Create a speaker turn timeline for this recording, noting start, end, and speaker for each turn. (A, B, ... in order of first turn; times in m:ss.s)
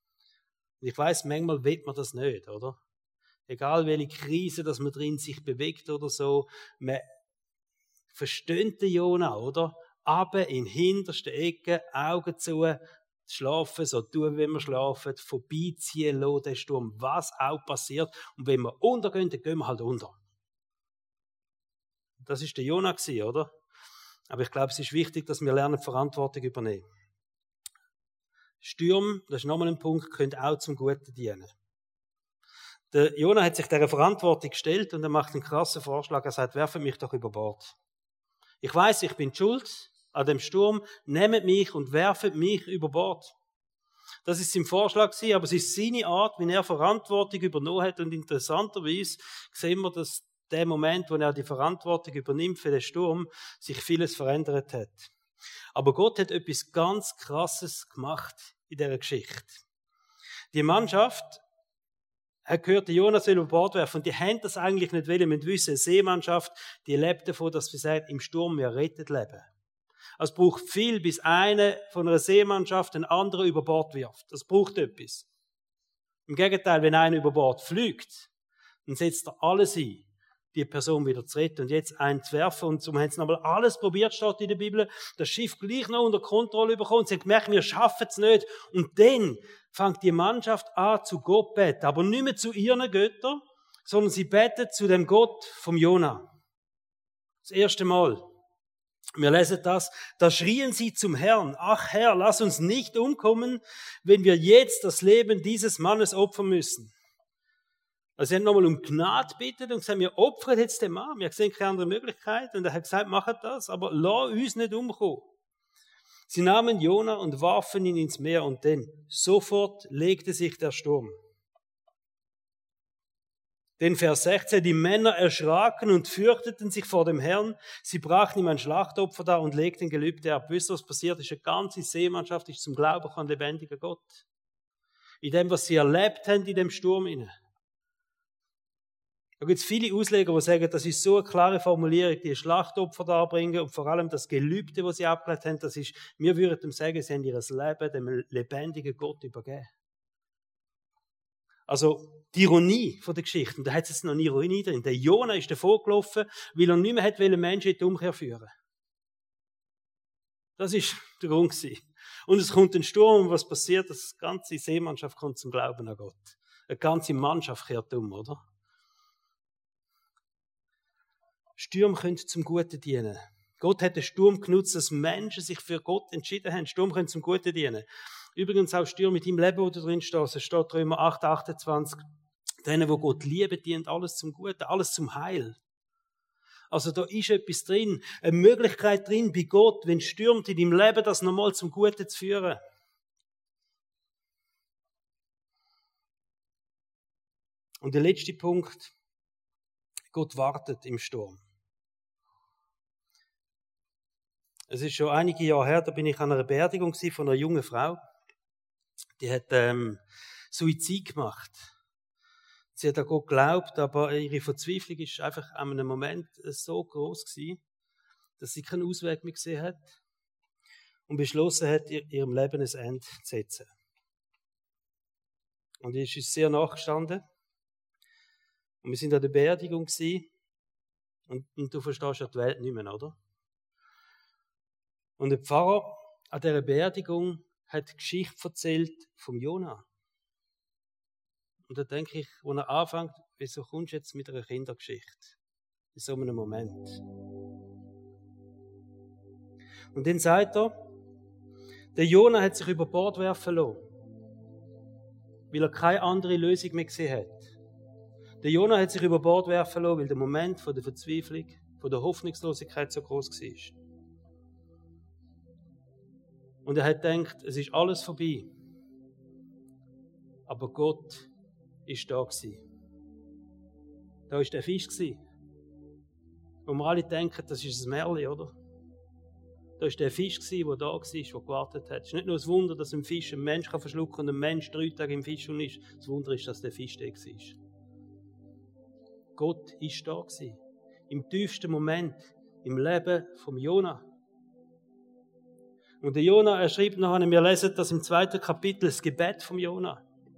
0:00.8-0:02.8 A
0:03.5-0:07.0 A
0:08.1-0:20.2 A
0:22.2-0:23.5 A
0:24.3-0:26.8 A
0:28.6-0:31.5 A
0:32.9-0:37.8 A
0:38.6-0:43.3 A
0:44.2-0:55.1 A
0:55.7-0:59.6 A
1:00.5-1:01.4 A
1:02.4-1:09.5 A
1:10.2-1:15.3 A
1:16.3-1:18.3 A
1:18.8-1:36.3 A
1:37.4-1:38.2 A
1:39.2-1:46.9 A
1:48.2-1:55.3 A
1:56.3-2:01.1 A
2:03.8-2:14.2 A
2:15.2-2:17.3 A
2:19.4-2:29.7 A
2:31.7-2:38.5 A
2:40.6-2:48.4 A
2:51.6-3:02.0 A
3:02.6-3:05.6 A
3:06.7-3:12.6 A
3:17.8-3:18.9 A
3:20.1-3:21.4 A
3:24.7-3:28.0 A
3:29.2-3:31.7 A
3:32.7-3:37.6 A
3:38.4-3:40.0 A
3:41.1-3:43.7 A
3:45.8-3:47.2 A
3:48.8-3:50.3 A
3:51.3-3:53.2 A
3:55.2-3:59.8 A
4:01.7-4:05.4 A
4:05.9-4:07.0 A
4:09.9-4:10.7 A
4:11.9-4:13.8 A
4:15.5-4:17.5 A
4:18.4-4:23.8 A
4:26.6-4:28.5 A
4:30.5-4:31.3 A
4:31.9-4:32.6 A
4:34.3-4:35.2 A
4:36.6-4:38.5 A
4:39.8-4:47.6 A
4:49.4-4:54.0 A
4:56.0-5:00.0 A